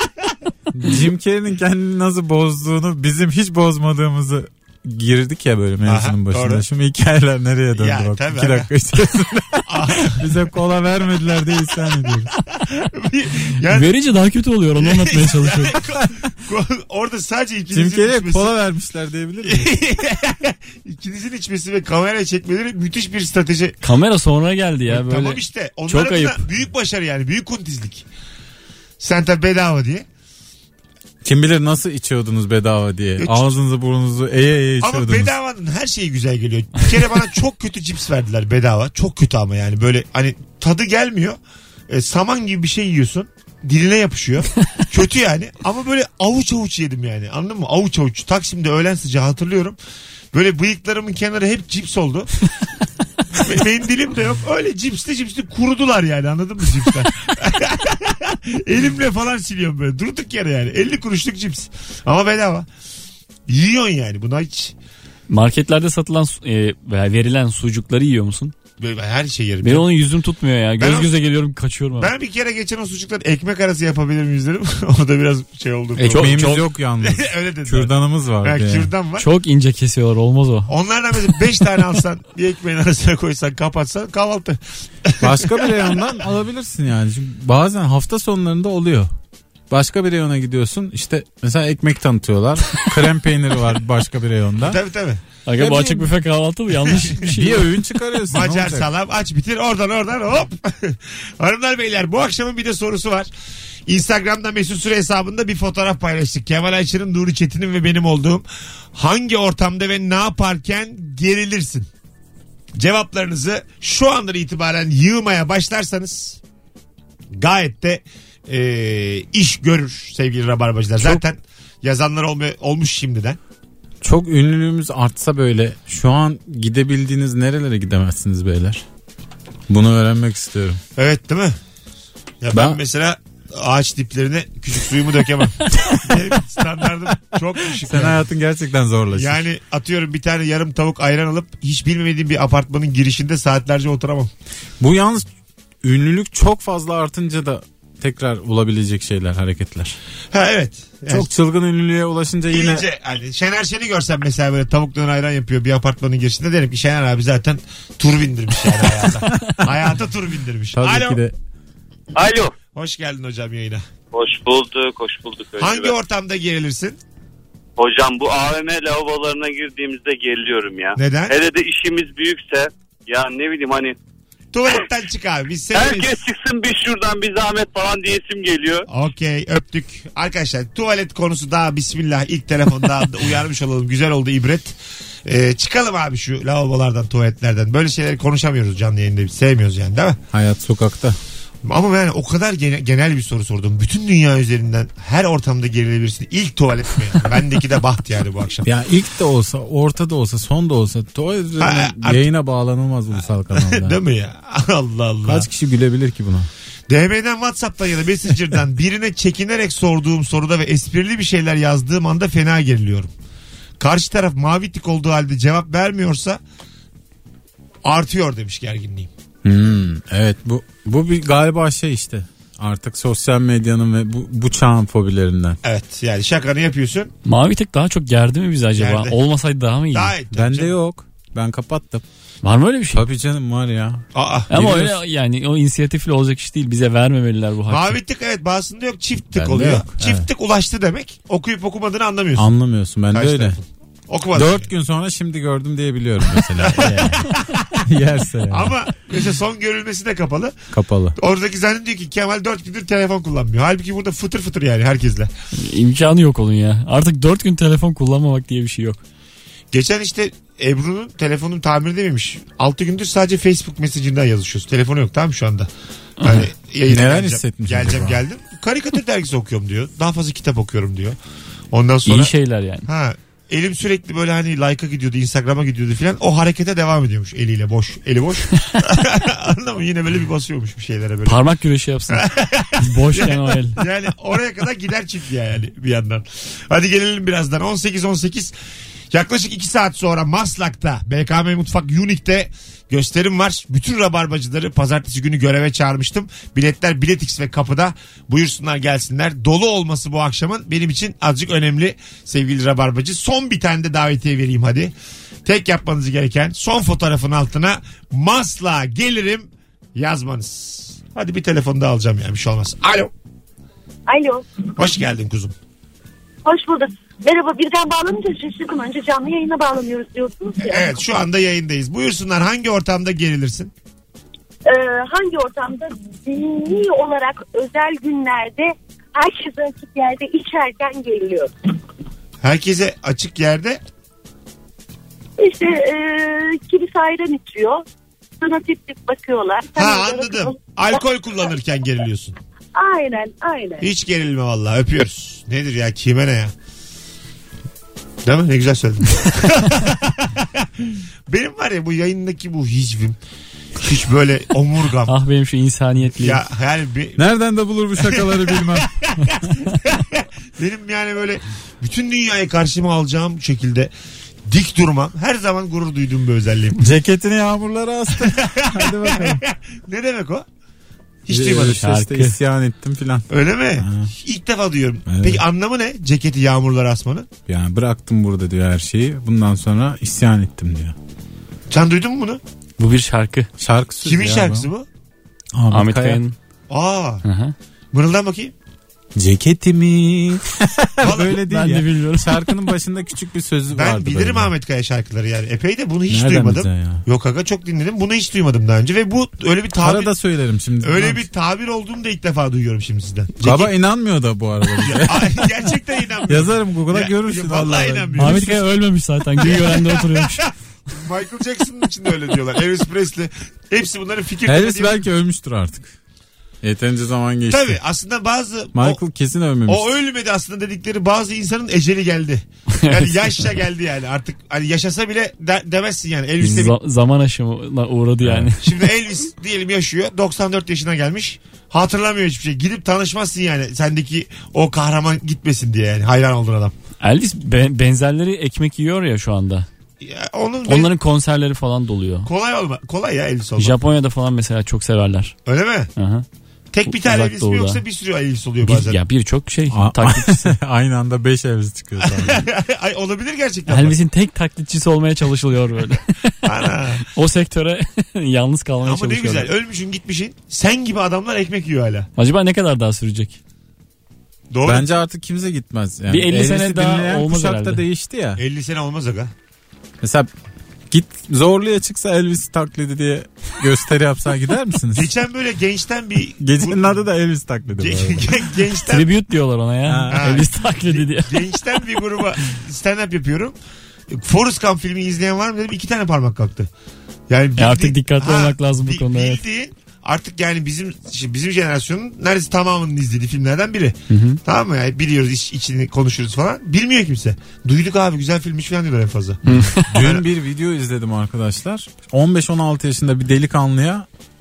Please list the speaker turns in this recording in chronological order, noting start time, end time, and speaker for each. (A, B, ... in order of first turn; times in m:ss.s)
0:00.7-0:12.3 A
0:05.8-0:06.6 B
0:07.8-0:08.7 B
0:09.7-0:10.4 B
0:12.3-0:13.9 B
0:13.7-0:15.8 C
0:14.8-0:18.5 B
0:17.7-0:19.7 A
0:19.4-0:23.8 B
0:23.8-0:26.4 C
0:24.9-0:28.0 B
0:29.0-0:30.0 B
0:31.2-0:35.3 A
0:33.2-0:33.5 B
0:34.8-0:41.4 B
0:41.9-0:49.8 B
0:50.3-0:52.4 B
0:53.4-1:02.7 B
1:03.5-1:04.7 B
1:05.3-1:08.5 C
1:08.8-1:09.9 B
1:09.6-1:12.1 C
1:10.8-1:11.1 B
1:12.0-1:19.3 B
1:16.0-1:16.6 C
1:16.0-1:18.9 A
1:19.2-1:20.7 C
1:20.7-1:26.0 B
1:25.2-1:29.1 A
1:29.7-1:34.8 A
1:34.6-1:35.2 B
1:35.4-1:37.7 C
1:35.6-1:36.1 A
1:37.2-1:38.9 A
1:38.3-1:43.3 B
1:43.9-1:51.9 B
1:52.8-1:56.4 B
1:57.3-2:03.4 B
2:04.0-2:08.8 A
2:09.7-2:10.8 A
2:11.0-2:11.5 B
2:12.4-2:18.2 B
2:12.5-2:12.8 A
2:17.8-2:19.4 A
2:19.1-2:24.3 B
2:24.8-2:25.3 A
2:25.8-2:30.0 A
2:30.3-2:31.3 B
2:31.1-2:32.9 A
2:32.5-2:41.2 B
2:39.2-2:39.7 A
2:40.7-2:41.4 A
2:42.1-2:42.5 D
2:42.7-2:43.8 B
2:44.1-2:45.9 D
2:45.6-2:47.0 B
2:47.8-2:54.0 D
2:51.0-2:51.4 B
2:54.5-2:56.2 B
2:55.7-2:58.9 D
2:58.9-3:04.7 B
3:05.2-3:10.2 B
3:10.3-3:11.2 A
3:11.6-3:18.7 B
3:18.6-3:24.0 A
3:21.6-3:22.2 B
3:23.5-3:25.5 B
3:25.2-3:26.5 A
3:26.9-3:33.1 B
3:33.8-3:36.4 B
3:37.8-3:39.1 B
3:39.4-3:45.6 A
3:45.6-3:47.1 B
3:47.2-3:50.1 C
3:48.8-3:49.2 B
3:49.9-3:50.7 B
3:50.3-3:52.0 A
3:52.4-3:53.0 C
3:52.9-3:55.0 A
3:54.1-3:54.6 B
3:54.5-3:58.0 C
3:57.7-4:02.5 B
3:59.3-4:00.3 A
4:02.4-4:03.6 A
4:03.1-4:04.7 B
4:04.3-4:08.8 A
4:06.6-4:07.6 B
4:08.5-4:10.5 B
4:10.7-4:11.2 A
4:11.2-4:15.3 B
4:15.5-4:19.0 C
4:19.7-4:25.7 B
4:26.2-4:26.5 C
4:26.2-4:31.2 B
4:26.9-4:28.2 A
4:31.7-4:32.3 B
4:32.0-4:32.9 C
4:32.9-4:41.4 B
4:41.2-4:42.2 C
4:42.1-4:48.5 B
4:42.8-4:43.8 C
4:49.1-5:04.9 B
5:05.4-5:13.1 B
5:14.1-5:14.4 E
5:14.8-5:15.5 B
5:16.4-5:20.9 E
5:20.6-5:23.7 B
5:24.6-5:31.5 E
5:32.4-5:33.8 B
5:35.4-5:37.8 E
5:38.4-5:41.0 E
5:39.8-5:42.3 B
5:42.7-5:43.9 E
5:43.8-5:46.5 B
5:48.2-5:53.2 B
5:53.8-5:55.1 B
5:55.1-5:56.4 C
5:56.2-5:57.2 B
5:57.2-5:58.9 A
5:58.0-6:03.9 B
6:04.5-6:06.8 B
6:06.8-6:09.4 A
6:08.2-6:10.4 B
6:11.2-6:11.8 B
6:11.3-6:14.1 A
6:11.8-6:12.4 C
6:13.3-6:17.3 B
6:15.1-6:15.4 A
6:17.5-6:21.0 A
6:21.7-6:22.4 B
6:22.8-6:23.5 C
6:23.6-6:24.7 A
6:24.0-6:24.8 B
6:25.5-6:26.2 A
6:25.7-6:26.4 C
6:26.7-6:27.2 B
6:27.2-6:27.5 C
6:27.9-6:28.5 B
6:29.2-6:34.5 A
6:31.0-6:31.4 B
6:31.3-6:32.7 C
6:33.7-6:40.1 B
6:36.1-6:37.0 A
6:39.8-6:41.3 A
6:40.8-6:43.7 B
6:43.4-6:45.5 A
6:44.8-6:48.5 B
6:46.3-6:48.6 A
6:48.2-6:50.5 C
6:49.4-6:55.0 B
6:54.4-6:55.9 A
6:56.6-6:57.8 A
6:57.5-6:59.0 B
6:58.7-6:59.8 A
6:59.6-7:06.7 B
7:02.8-7:03.1 C
7:06.4-7:08.6 C
7:08.2-7:08.5 A
7:08.6-7:16.7 B
7:17.0-7:19.7 C
7:20.0-7:20.9 B
7:20.7-7:22.3 C
7:22.2-7:23.8 B
7:23.6-7:25.3 C
7:25.4-7:25.9 B
7:26.0-7:26.2 C
7:26.7-7:29.0 B
7:26.9-7:27.8 C
7:28.6-7:30.5 C
7:29.7-7:32.4 A
7:32.0-7:34.0 B
7:33.7-7:36.5 C
7:36.4-7:37.0 B
7:37.1-7:39.5 C
7:38.8-7:42.1 B
7:42.2-7:43.4 C
7:44.5-7:44.9 B
7:44.6-7:48.4 A
7:46.1-7:47.8 C
7:48.4-7:49.3 B
7:50.0-7:50.3 A
7:50.9-7:55.1 A
7:54.9-7:57.0 B
7:56.4-7:58.4 A
7:57.8-7:59.1 B
7:58.9-8:01.4 C
7:59.9-8:00.4 A
8:00.1-8:03.5 B
8:04.1-8:06.7 B
8:07.3-8:20.2 B
8:07.6-8:09.4 C
8:14.1-8:14.4 C
8:19.4-8:19.8 C
8:19.7-8:24.1 A